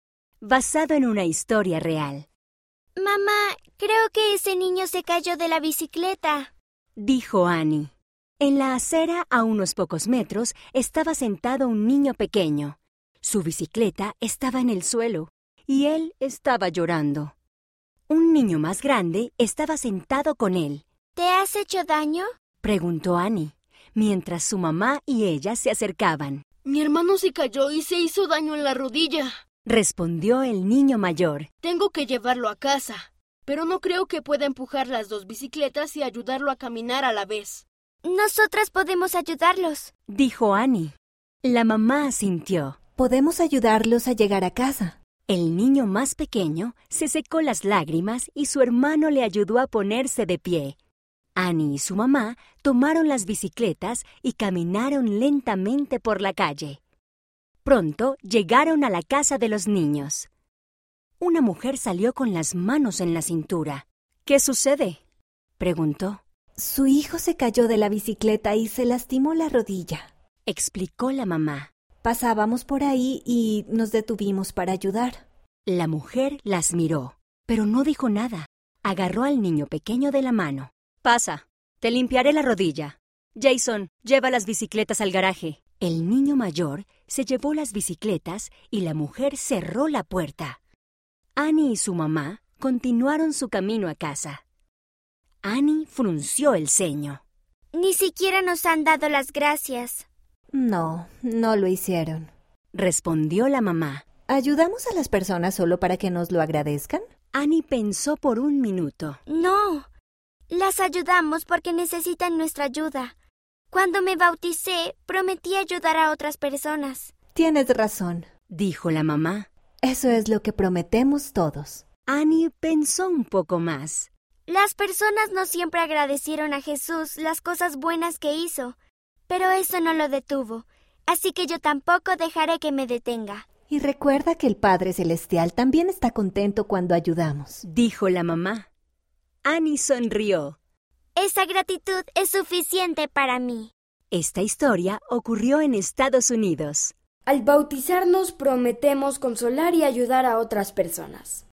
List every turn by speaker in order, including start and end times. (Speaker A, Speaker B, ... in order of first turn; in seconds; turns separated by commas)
Speaker A: 0.4-2.2, Speaker B: 3.0-6.5, Speaker A: 7.0-17.3, Speaker A: 18.1-20.8, Speaker B: 21.1-22.3, Speaker A: 22.6-26.4, Speaker C: 26.6-29.3, Speaker A: 29.6-31.5, Speaker C: 31.6-37.6, Speaker B: 38.0-39.9, Speaker A: 40.1-42.8, Speaker D: 43.0-45.0, Speaker A: 45.3-50.8, Speaker A: 51.4-56.8, Speaker A: 57.6-60.3, Speaker A: 61.2-65.0, Speaker A: 65.6-66.2, Speaker D: 66.6-70.1, Speaker A: 70.5-71.7, Speaker D: 72.0-75.2, Speaker A: 75.7-90.6, Speaker A: 91.3-94.4, Speaker A: 95.4-97.2, Speaker B: 97.7-100.0, Speaker D: 100.5-102.3, Speaker A: 102.7-104.0, Speaker D: 104.3-107.0, Speaker A: 107.3-109.2, Speaker B: 109.3-109.8, Speaker B: 110.5-113.1, Speaker B: 113.7-117.1, Speaker D: 117.3-118.3, Speaker A: 118.5-119.5, Speaker D: 119.8-121.8, Speaker A: 122.1-124.1, Speaker B: 124.5-128.7, Speaker B: 129.3-133.4, Speaker D: 133.7-137.6, Speaker A: 137.6-138.7, Speaker A: 139.4-140.6, Speaker B: 141.2-143.7, Speaker A: 144.1-146.9, Speaker E: 147.2-151.4